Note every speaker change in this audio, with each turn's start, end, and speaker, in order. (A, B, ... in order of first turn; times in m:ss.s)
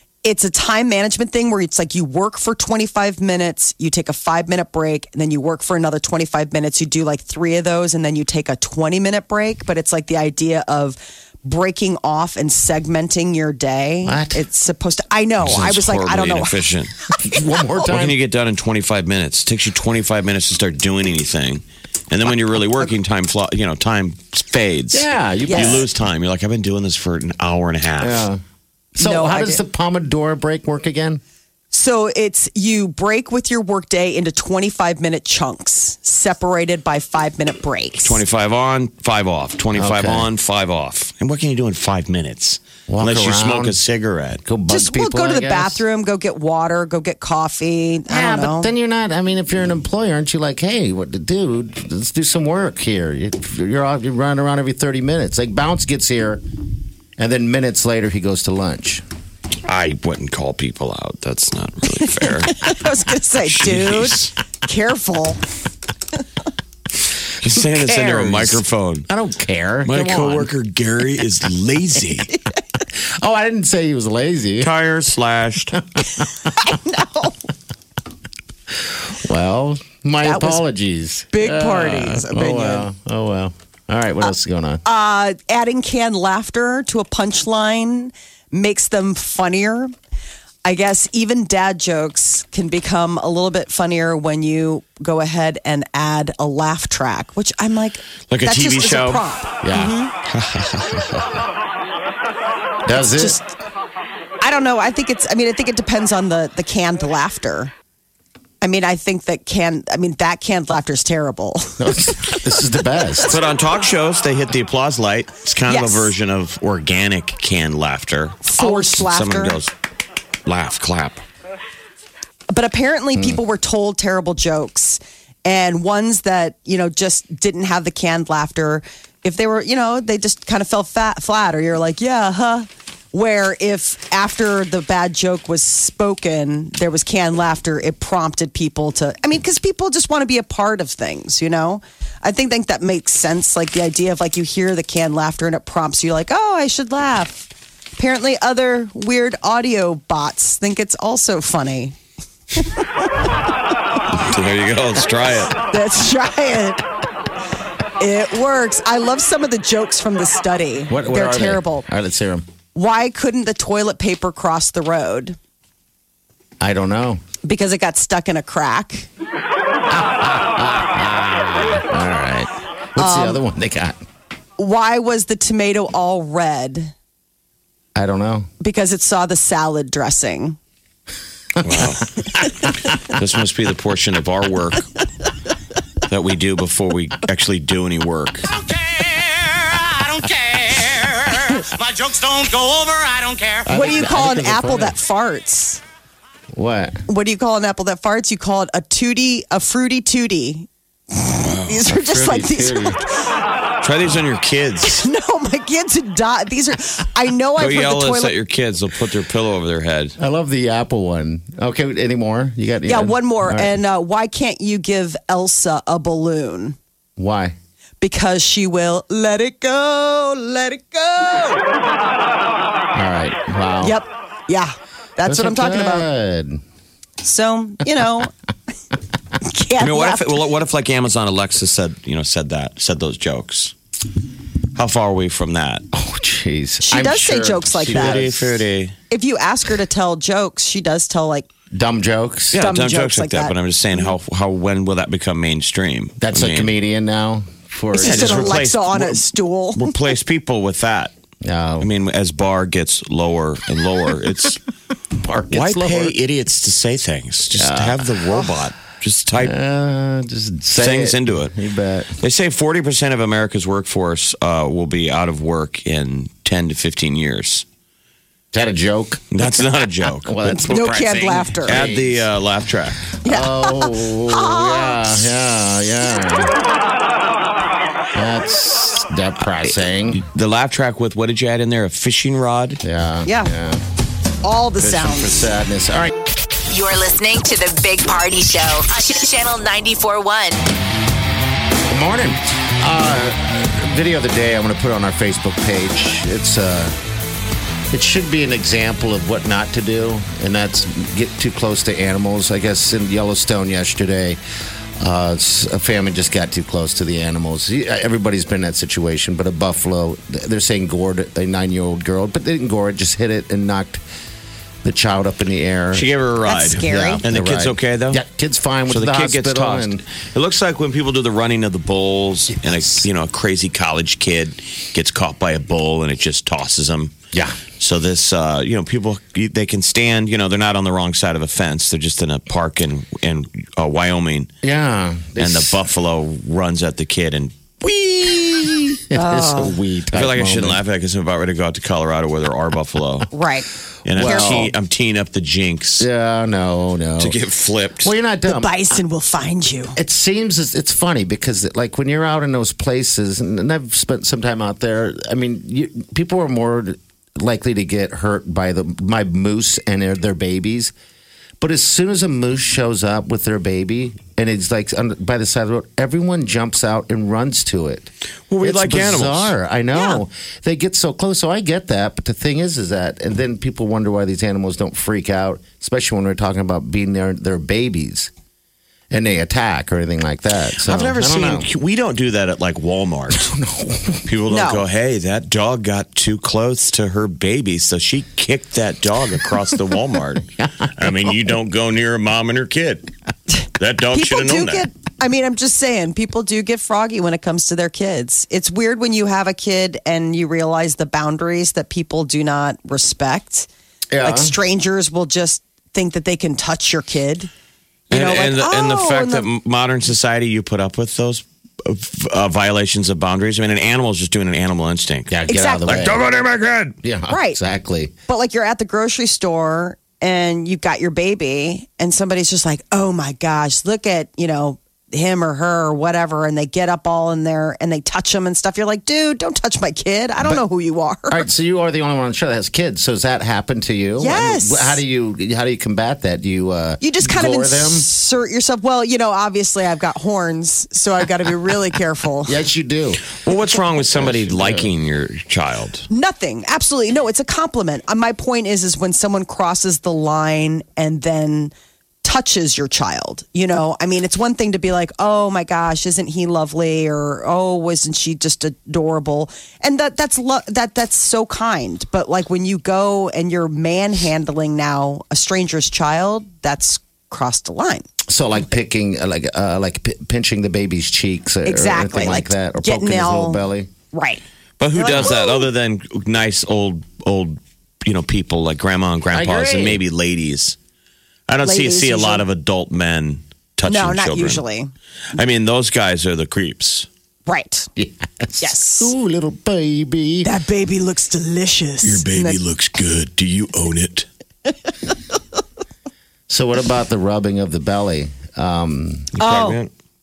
0:00.2-0:16.6 A
0:14.0-0:14.4 B
0:15.4-0:16.9 C
0:17.2-0:18.2 B
0:17.8-0:28.3 C
0:24.9-0:25.9 B
0:25.5-0:25.8 A
0:28.0-0:28.4 B
0:29.0-0:31.2 B
0:29.0-0:29.6 A
0:31.7-0:38.2 A
0:38.0-0:44.4 C
0:39.8-0:40.3 B
0:42.9-0:43.8 B
0:44.4-0:45.8 B
0:44.7-0:48.7 A
0:48.1-0:56.4 B
0:57.2-0:59.0 B
0:59.7-1:02.8 C
1:02.3-1:05.4 A
1:03.4-1:04.3 C
1:07.4-1:09.1 C
1:07.9-1:10.5 B
1:09.8-1:12.3 C
1:13.0-1:14.7 B
1:14.6-1:15.8 C
1:16.0-1:16.5 B
1:16.5-1:17.4 A
1:18.7-1:24.8 B
1:20.2-1:20.6 A
1:21.3-1:22.9 A
1:24.8-1:29.9 A
1:30.6-1:40.1 A
1:38.3-1:39.2 C
1:39.6-1:40.0 B
1:40.3-1:41.4 C
1:42.8-1:43.4 B
1:43.0-1:43.5 A
1:44.4-1:47.7 A
1:48.6-1:52.4 A
1:51.8-1:53.4 B
1:53.3-1:59.7 C
1:55.7-1:56.1 A
1:58.4-1:59.6 A
2:00.5-2:01.2 C
2:02.5-2:32.0 A
2:32.6-2:32.9 A
2:34.1-2:35.6 C
2:35.6-2:36.8 A
2:38.0-2:41.9 A
2:40.9-2:42.4 B
2:42.7-2:45.4 A
2:46.6-2:47.2 B
2:47.4-2:49.1 A
2:49.9-2:54.0 B
2:53.0-2:53.4 A
2:54.6-2:56.9 A
2:58.0-2:58.5 B
2:58.6-3:00.6 A
3:01.6-3:01.9 B
3:01.6-3:02.1 C
3:03.0-3:04.9 C
3:06.1-3:08.5 C
3:08.5-3:13.7 D
3:13.7-3:15.0 B
3:13.7-3:15.8 A
3:16.5-3:17.0 B
3:17.1-3:23.2 A
3:21.8-3:23.0 B
3:23.8-3:25.0 C
3:24.8-3:28.4 A
3:27.6-3:30.2 C
3:30.2-3:33.8 B
3:32.9-3:36.8 A
3:37.2-3:37.6 B
3:38.0-3:41.6 A
3:42.9-3:44.0 B
3:43.8-3:46.1 A
3:45.2-3:46.6 B
3:47.2-3:48.3 A
3:49.4-3:50.4 A
3:49.8-3:53.7 C
3:54.8-3:55.8 C
3:55.9-3:58.6 B
3:56.8-3:58.2 A
3:57.9-3:59.0 C
3:59.1-4:01.5 A
4:01.7-4:02.6 B
4:02.5-4:06.7 C
4:02.5-4:03.6 A
4:06.2-4:08.7 B
4:07.9-4:10.0 A
4:08.0-4:09.2 C
4:09.8-4:11.1 C
4:11.4-4:11.9 B
4:11.8-4:14.6 C
4:15.2-4:16.2 B
4:15.5-4:19.5 C
4:17.5-4:18.2 B
4:19.4-4:22.2 B
4:20.8-4:21.6 C
4:22.2-4:27.6 C
4:28.5-4:29.4 B
4:29.3-4:31.0 C
4:30.2-4:32.3 B
4:30.5-4:31.8 A
4:31.6-4:33.1 C
4:33.2-4:35.1 A
4:33.2-4:36.5 B
4:38.2-4:40.2 B
4:40.1-4:42.8 C
4:42.8-4:43.8 B
4:43.3-4:43.5 A
4:44.4-4:45.5 A
4:44.8-4:46.1 B
4:46.7-4:50.7 E
4:51.9-4:57.0 B
4:57.9-5:04.4 B
5:05.0-5:14.0 B
5:14.8-5:16.1 B
5:15.9-5:18.2 C
5:16.5-5:17.2 A
5:16.8-5:20.0 B
5:18.9-5:27.2 C
5:27.3-5:27.6 B
5:27.8-5:34.5 C
5:34.6-5:35.8 B
5:35.4-5:37.8 C
5:37.8-5:40.8 B
5:39.2-5:39.8 A
5:40.1-5:43.3 C
5:43.3-5:43.7 A
5:44.0-5:46.1 C
5:44.1-5:44.7 B
5:44.2-5:44.7 A
5:46.0-5:47.4 B
5:47.2-5:48.1 C
5:48.0-5:48.8 B
5:48.5-5:50.0 A
5:50.0-6:00.9 B
6:01.6-6:18.3 B
6:08.5-6:09.5 C
6:19.1-6:21.7 B
6:20.8-6:23.5 C
6:23.3-6:24.2 B
6:24.3-6:33.1 C
6:24.5-6:24.8 A
6:33.8-6:34.9 C
6:34.1-6:43.7 A
6:44.1-6:44.6 B
6:44.2-6:47.5 A
6:48.1-6:57.0 C
6:48.1-6:49.5 A
6:55.3-6:56.3 B
6:55.5-6:56.1 A
6:57.0-6:58.1 B
6:57.3-6:57.6 A
6:58.3-7:11.4 A
7:11.3-7:18.1 B
7:14.2-7:15.0 A
7:17.0-7:22.6 A
7:22.5-7:23.3 B
7:23.3-7:26.1 C
7:24.1-7:24.9 B
7:26.1-7:31.7 A
7:32.2-7:48.1 A
7:48.3-7:53.9 B
7:51.7-7:54.4 A
7:54.8-8:00.8 C
7:54.9-7:55.7 A
7:59.3-8:00.0 B
8:01.5-8:04.6 C
8:01.6-8:02.4 A
8:03.9-8:04.9 A
8:05.3-8:07.1 C
8:07.5-8:07.9 A
8:08.0-8:10.5 B
8:08.6-8:09.1 A
8:10.4-8:12.6 A
8:12.0-8:14.3 C
8:16.5-8:19.3 B
8:19.4-8:19.9 C
8:19.4-8:19.8 A